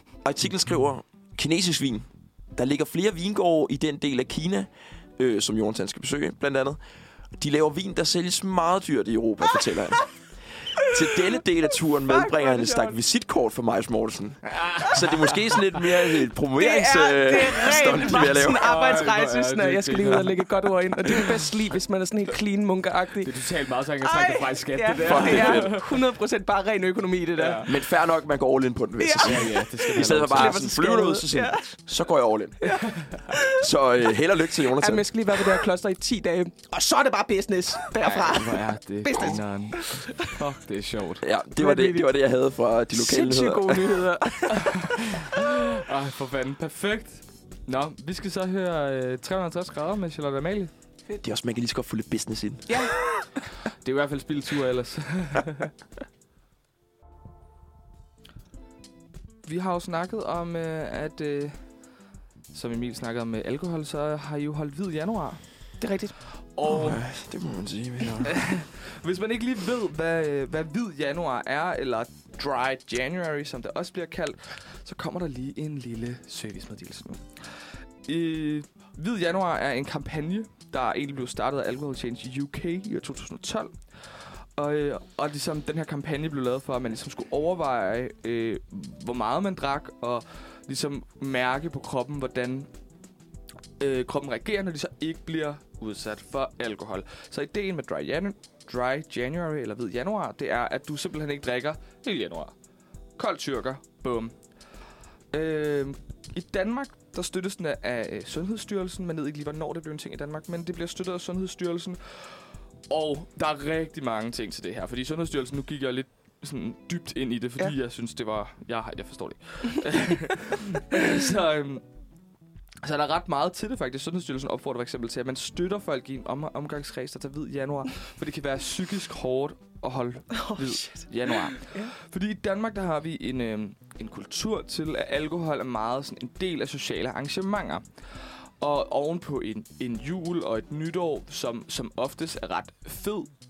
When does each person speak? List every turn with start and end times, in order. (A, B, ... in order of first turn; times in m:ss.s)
0:00.2-0:06.8 A
0:07.4-0:10.2 A
0:10.8-0:18.6 A
0:12.0-0:13.0 B
0:14.5-0:15.2 C
0:16.6-0:23.4 B
0:18.4-0:20.5 C
0:23.2-0:26.0 C
0:24.0-0:27.7 B
0:25.0-0:25.8 A
0:27.4-0:27.7 C
0:27.6-0:35.5 A
0:29.0-0:31.8 B
0:29.2-0:30.6 C
0:32.6-0:33.6 B
0:32.7-0:33.1 C
0:34.8-0:40.3 B
0:38.0-0:41.2 C
0:41.2-0:44.0 A
0:41.6-0:42.2 B
0:42.9-0:45.0 B
0:45.3-0:50.7 C
0:51.2-0:52.9 A
0:52.7-0:53.0 B
0:53.8-0:55.7 C
0:59.4-1:01.7 C
1:02.5-1:05.8 C
1:05.8-1:06.2 B
1:06.5-1:07.0 C
1:06.6-1:08.4 A
1:08.2-1:32.7 C
1:33.8-1:42.5 C
1:43.2-1:44.3 C
1:45.3-2:01.8 C
2:02.8-2:23.3 C
2:10.3-2:11.9 B